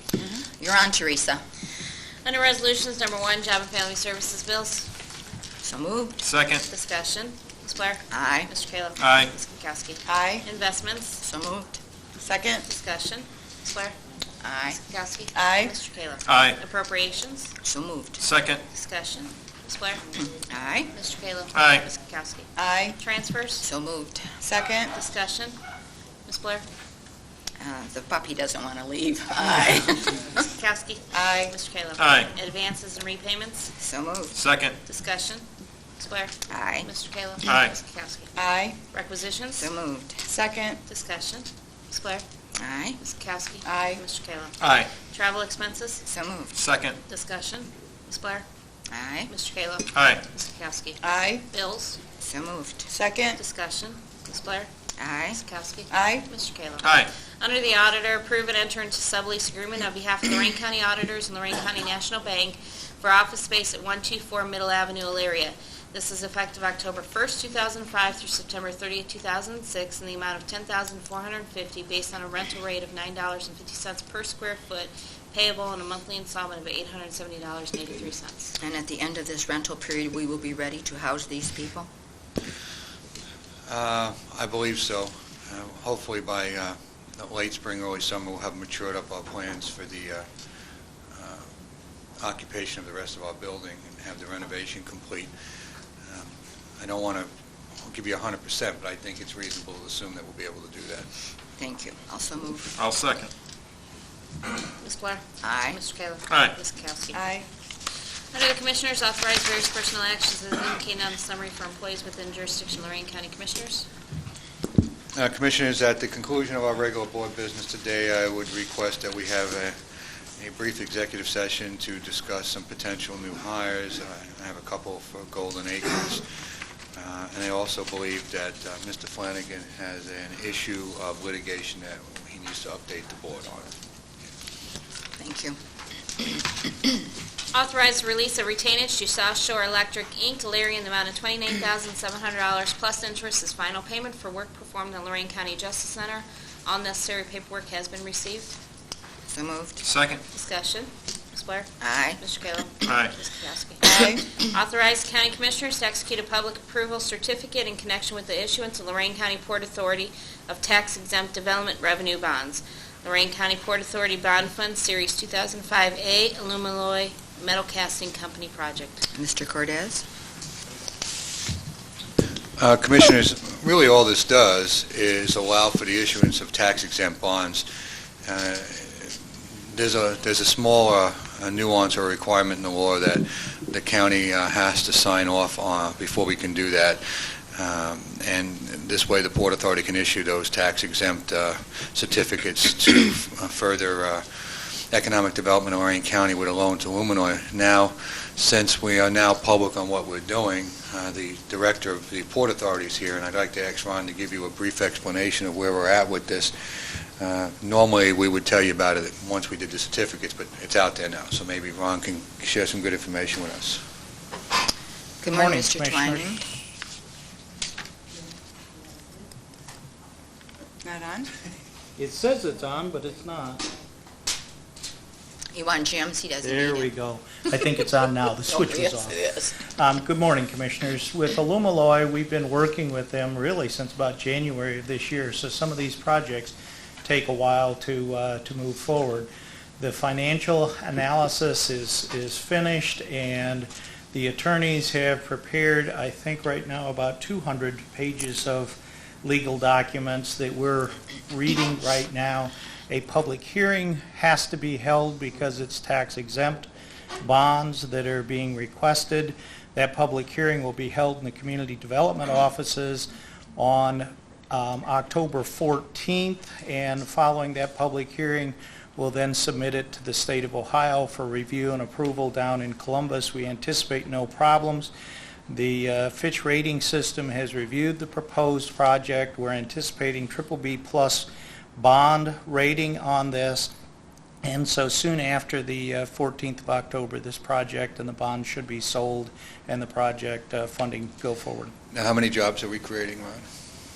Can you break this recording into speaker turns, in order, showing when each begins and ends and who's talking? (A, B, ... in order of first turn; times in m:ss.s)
0:00.5-0:01.4 A
0:02.2-0:04.9 B
0:05.6-0:06.2 A
0:06.2-0:06.6 C
0:06.6-0:11.2 B
0:08.1-0:08.5 A
0:09.0-0:09.3 C
0:10.1-0:10.4 D
0:11.2-0:11.8 A
0:12.2-0:12.6 D
0:12.6-0:14.0 B
0:14.4-0:14.8 A
0:14.8-0:17.5 B
0:15.3-0:15.7 D
0:16.3-0:16.6 C
0:17.6-0:18.2 A
0:18.2-0:18.6 C
0:18.7-0:20.0 B
0:20.4-0:20.9 A
0:20.9-0:23.6 B
0:21.5-0:21.8 C
0:22.6-0:23.0 D
0:23.6-0:24.3 A
0:24.4-0:24.9 D
0:24.9-0:25.6 B
0:26.2-0:26.6 B
0:27.6-0:30.4 A
0:30.4-0:33.7 B
0:31.1-0:31.5 D
0:32.0-0:32.3 C
0:33.8-0:34.3 A
0:34.3-0:34.8 C
0:34.8-0:35.4 B
0:36.0-0:38.3 B
0:36.5-0:36.9 A
0:37.4-0:37.7 C
0:38.4-0:38.8 D
0:38.9-0:39.7 B
0:39.6-0:40.2 A
0:40.2-0:40.8 D
0:40.9-0:42.2 B
0:42.6-0:43.0 A
0:43.0-0:46.0 B
0:43.6-0:44.0 D
0:44.6-0:44.9 C
0:46.0-0:46.5 A
0:46.5-0:47.0 C
0:47.1-0:48.4 B
0:48.9-0:49.3 A
0:49.3-0:52.0 B
0:49.9-0:50.2 C
0:51.0-0:51.4 D
0:52.2-0:52.9 A
0:52.9-0:53.4 D
0:53.4-0:54.7 B
0:55.0-0:55.4 A
0:55.3-1:18.6 B
0:55.9-0:56.2 D
0:56.8-0:57.1 C
1:18.6-1:21.9 A
1:23.6-1:30.2 E
1:31.1-1:31.5 E
1:32.2-1:35.3 E
1:36.0-1:41.1 E
1:41.6-1:42.8 A
1:42.8-1:43.3 C
1:44.8-1:47.2 B
1:45.4-1:45.8 A
1:46.3-1:46.5 C
1:47.1-1:47.5 D
1:48.3-1:53.9 B
1:55.1-1:59.8 E
2:00.4-2:06.4 E
2:06.9-2:13.7 E
2:15.2-2:15.6 A
2:17.5-2:28.6 B
2:29.3-2:29.8 A
2:29.8-2:30.2 C
2:30.3-2:49.0 B
2:31.8-2:32.2 A
2:32.8-2:33.1 C
2:33.8-2:34.2 D
2:49.1-2:50.0 A
2:52.6-2:57.7 E
2:58.2-3:33.8 E
3:35.2-3:36.4 A
3:35.3-3:36.4 F
3:40.8-3:41.3 D
3:42.0-3:43.7 F
3:45.5-3:46.9 A
3:46.4-4:16.7 F
3:48.4-3:49.5 A
4:17.2-4:34.9 F
4:35.5-4:43.7 F
4:44.4-4:51.7 F
4:51.9-4:53.5 E